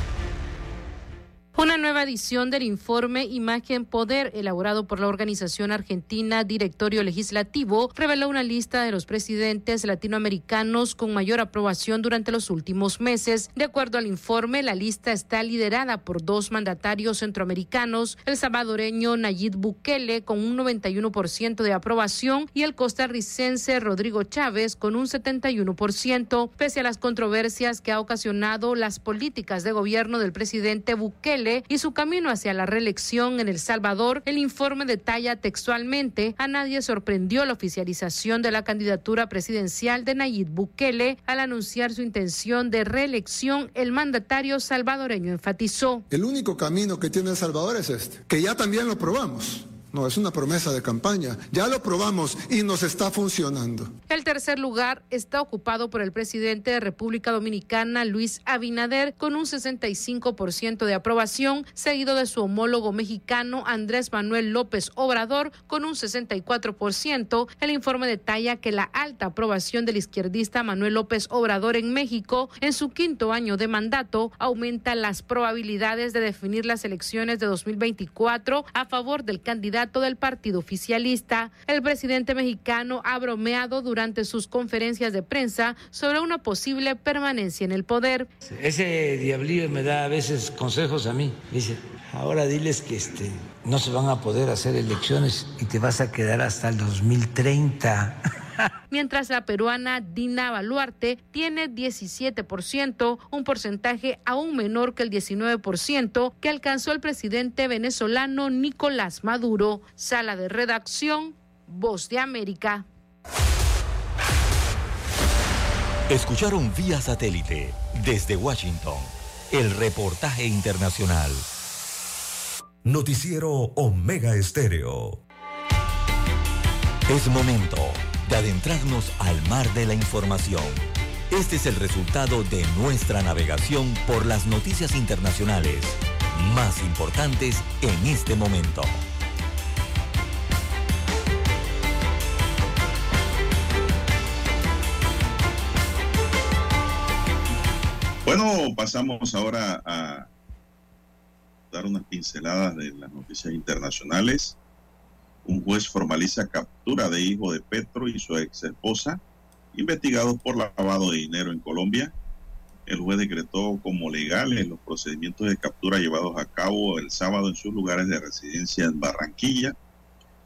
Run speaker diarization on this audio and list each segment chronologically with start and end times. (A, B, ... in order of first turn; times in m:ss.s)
0:01.6-0:46.0 A
0:46.1-0:53.9 B
0:54.1-1:28.3 A
1:28.4-1:38.2 C
1:38.9-1:52.8 A
1:56.1-2:01.5 D
2:02.8-2:05.2 E
2:07.1-2:19.0 D
2:28.2-2:30.3 F
2:31.7-2:34.6 F
2:35.4-2:39.2 F
2:39.7-2:42.1 F
2:42.9-2:49.8 F